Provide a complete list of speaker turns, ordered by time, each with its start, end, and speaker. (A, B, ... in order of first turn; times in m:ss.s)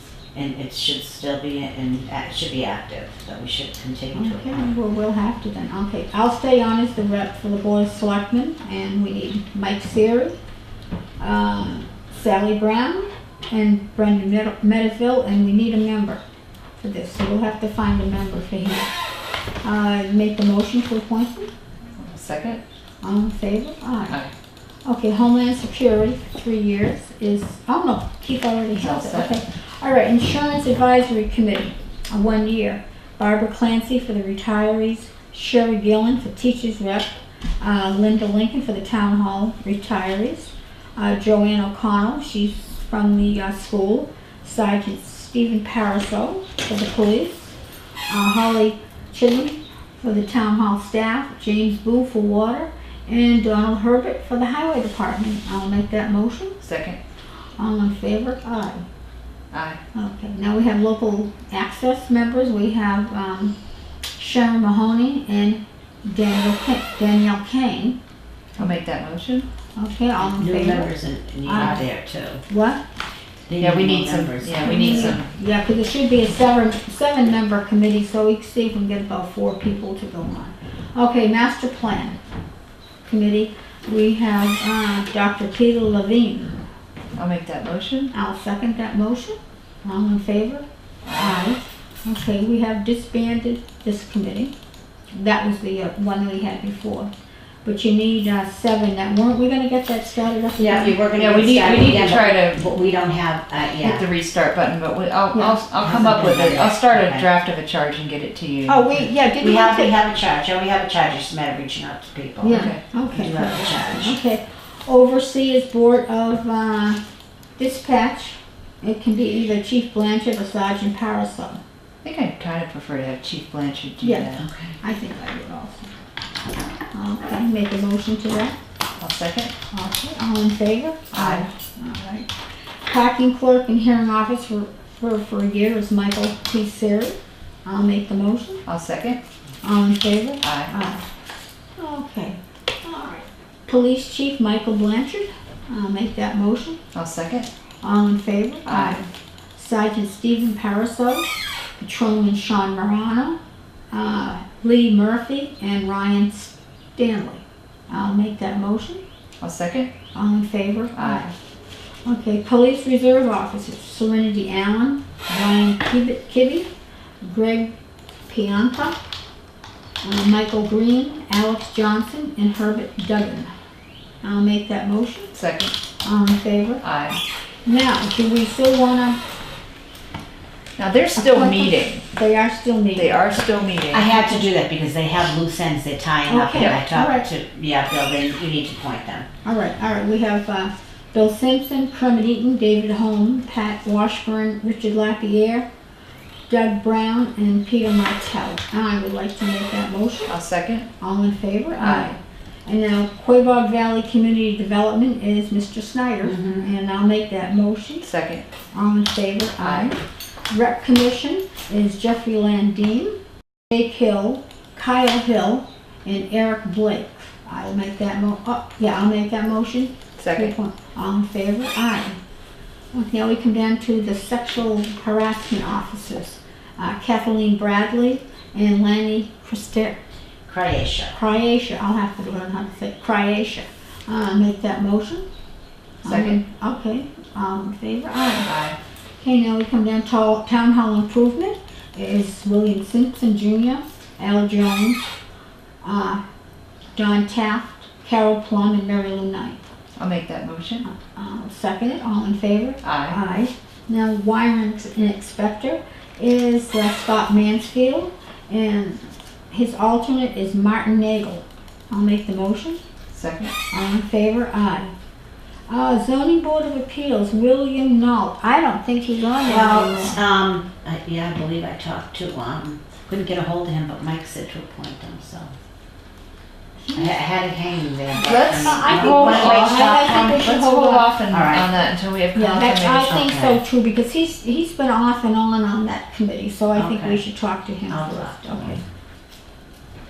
0:00.3-0:04.6 A
0:04.1-0:10.3 B
0:11.2-0:16.2 B
0:16.8-0:18.9 B
0:19.6-0:21.5 B
0:22.0-0:22.6 C
0:23.0-0:24.2 B
0:24.8-0:47.6 B
0:28.7-0:29.4 C
0:48.1-0:56.6 B
0:56.6-0:57.0 C
0:57.6-0:58.8 B
0:59.5-0:59.8 C
0:59.9-1:03.6 B
1:04.2-1:08.0 B
1:08.6-1:09.5 C
1:09.8-1:10.9 B
1:10.2-1:12.4 A
1:11.4-1:11.9 B
1:12.4-1:12.8 B
1:13.5-1:15.2 A
1:13.6-1:15.3 C
1:14.6-1:22.2 B
1:23.0-1:26.6 B
1:27.2-1:28.1 C
1:28.1-1:30.6 B
1:31.0-1:31.4 C
1:31.2-1:34.5 B
1:35.1-1:37.1 B
1:37.6-1:41.0 B
1:40.6-1:44.0 A
1:41.1-1:42.6 C
1:43.8-1:48.9 C
1:45.3-1:45.6 B
1:45.8-1:47.3 A
1:48.7-1:49.9 B
1:49.4-1:54.2 A
1:52.4-1:57.0 B
1:52.5-1:52.8 C
1:57.6-2:01.6 B
2:02.0-2:04.5 C
2:04.0-2:05.9 B
2:06.9-2:08.5 B
2:09.0-2:09.5 C
2:09.7-2:12.3 B
2:11.1-2:11.5 C
2:12.8-2:18.6 B
2:18.6-2:19.2 C
2:19.6-2:21.0 B
2:20.4-2:20.7 C
2:21.8-2:26.8 B
2:26.9-2:27.5 C
2:27.8-2:33.4 B
2:28.6-2:29.0 C
2:33.9-2:39.0 B
2:39.4-2:39.9 C
2:40.1-2:41.3 B
2:40.9-2:41.3 C
2:42.0-2:46.7 B
2:47.2-2:47.7 B
2:48.3-2:49.0 B
2:50.0-2:53.5 B
2:54.2-2:55.3 B
2:55.3-2:55.7 C
2:56.0-2:56.9 B
2:56.8-2:57.2 C
2:57.6-2:59.2 B
3:00.8-3:02.0 C
3:01.2-3:03.3 B
3:02.9-3:04.1 C
3:03.9-3:09.3 A
3:06.3-3:07.3 B
3:06.6-3:06.8 C
3:09.4-3:15.6 B
3:16.5-3:20.4 B
3:20.3-3:20.9 C
3:21.0-3:28.1 B
3:21.8-3:22.1 C
3:26.3-3:26.6 A
3:28.0-3:28.4 C
3:28.7-3:33.1 B
3:29.6-3:29.9 C
3:33.7-3:42.2 B
3:40.2-3:40.5 C
3:42.9-3:50.0 B
3:50.4-3:51.2 A
3:51.1-3:55.2 B
3:56.0-3:58.5 B
3:56.0-3:56.4 C
3:58.4-3:58.8 C
3:59.2-4:05.0 B
4:05.8-4:06.2 B
4:06.9-4:09.6 B
4:10.0-4:10.8 C
4:10.8-4:22.8 B
4:12.8-4:13.2 C
4:23.1-4:23.5 C
4:23.7-4:24.9 B
4:25.7-4:30.2 B
4:29.4-4:35.5 A
4:36.9-4:37.1 B
4:36.9-4:40.4 A
4:38.2-4:43.2 C
4:38.5-4:41.2 B
4:41.3-4:41.7 A
4:42.3-4:48.8 B
4:43.1-4:43.6 A
4:46.7-4:47.2 A
4:47.9-4:48.8 A